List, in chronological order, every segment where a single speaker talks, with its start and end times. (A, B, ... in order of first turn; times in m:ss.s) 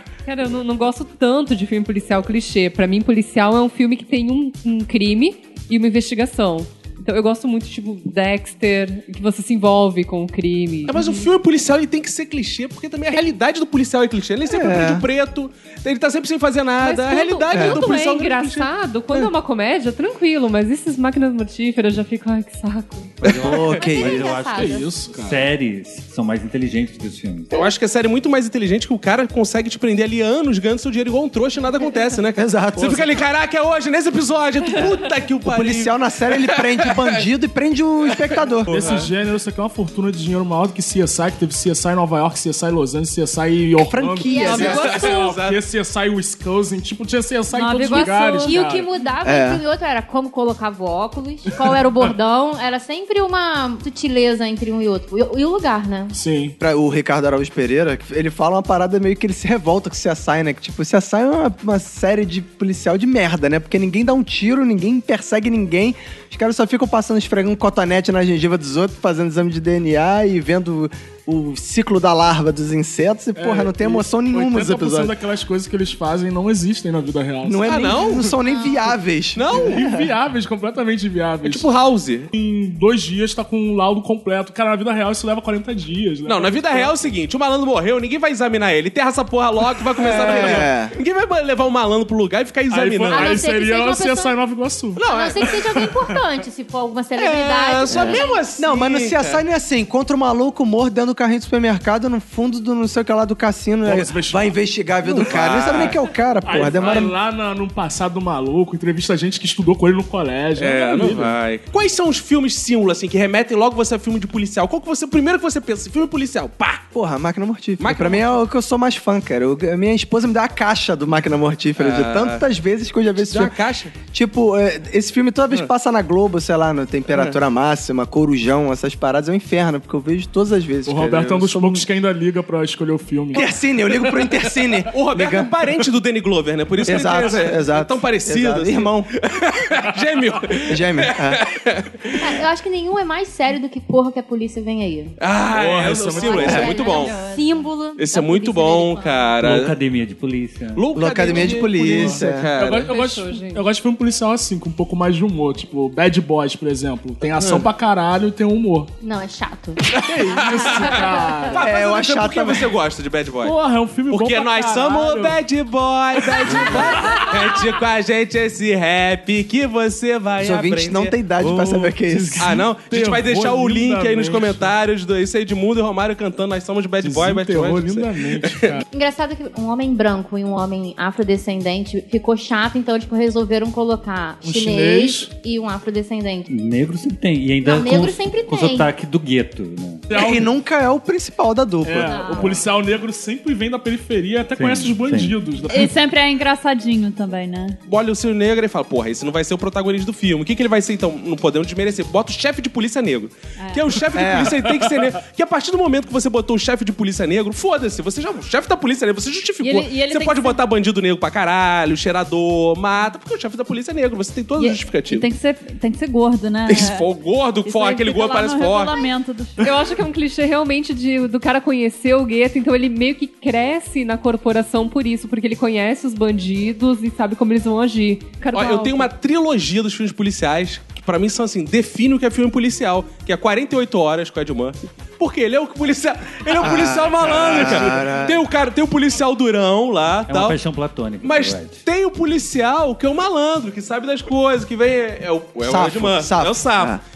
0:00.2-0:11.3 A
0:10.9-0:18.7 B
0:14.5-0:15.0 C
0:16.8-0:23.2 A
0:17.5-0:17.8 C
0:23.2-0:27.5 D
0:23.2-0:24.2 C
0:23.6-0:24.9 E
0:24.5-0:25.5 F
0:27.5-0:37.2 B
0:32.4-0:33.2 C
0:35.4-0:38.8 C
0:38.2-0:39.1 B
0:38.7-0:48.9 F
0:43.8-0:44.9 C
0:44.2-0:45.3 E
0:44.4-0:45.6 B
0:47.5-0:48.7 G
0:47.9-0:56.1 E
0:49.2-0:49.6 C
0:56.1-0:56.6 F
0:56.6-1:15.1 C
1:13.4-1:17.7 F
1:17.4-1:20.1 C
1:17.6-1:18.3 B
1:18.4-1:18.9 E
1:19.3-1:19.8 B
1:19.5-1:21.7 F
1:21.4-1:22.3 B
1:22.3-1:26.9 F
1:26.2-1:33.4 B
1:30.0-1:30.9 C
1:30.3-1:30.6 F
1:32.7-1:35.0 F
1:33.1-1:34.4 E
1:35.0-1:35.6 B
1:35.0-1:38.4 E
1:35.6-1:35.9 F
1:37.1-1:39.4 B
1:37.9-1:47.1 C
1:43.8-1:44.6 F
1:45.0-1:46.0 B
1:45.2-1:51.3 F
1:46.7-1:47.0 B
1:50.6-1:56.8 B
1:56.9-2:03.5 C
1:57.8-1:58.3 B
2:01.8-2:02.4 B
2:03.2-2:03.9 B
2:04.1-2:11.8 C
2:10.8-2:13.4 F
2:13.3-2:15.7 C
2:14.9-2:22.4 B
2:16.8-2:19.1 C
2:20.7-2:21.4 C
2:22.2-2:25.1 E
2:25.2-2:27.2 B
2:25.5-2:26.7 F
2:26.1-2:29.4 E
2:26.7-2:27.7 G
2:28.0-2:29.7 B
2:29.4-2:30.8 D
2:30.8-2:32.9 B
2:30.9-2:32.5 C
2:31.3-2:38.9 F
2:32.8-2:33.6 A
2:37.4-2:37.6 B
2:39.0-2:39.8 E
2:39.9-2:41.6 F
2:40.0-2:43.6 B
2:40.6-2:41.5 E
2:41.6-2:42.7 C
2:43.4-2:45.4 F
2:44.1-2:51.8 B
2:46.3-2:47.3 F
2:50.4-2:52.6 C
2:51.5-2:54.7 F
2:52.4-2:58.8 B
2:57.0-2:58.8 F
2:58.9-3:06.5 E
3:04.4-3:05.3 F
3:06.5-3:10.0 D
3:07.6-3:08.9 E
3:10.1-3:10.5 F
3:10.1-3:12.3 C
3:11.8-3:15.9 F
3:12.1-3:12.6 E
3:14.5-3:15.4 D
3:15.7-3:17.8 G
3:17.9-3:35.3 B
3:23.6-3:23.9 G
3:24.1-3:24.6 C
3:29.6-3:30.6 G
3:34.6-3:37.1 G
3:36.7-3:39.0 B
3:37.6-3:39.7 G
3:39.6-3:49.1 A
3:48.5-4:00.6 B
3:56.5-3:58.4 C
4:00.3-4:01.8 D
4:01.2-4:07.0 B
4:05.6-4:07.0 C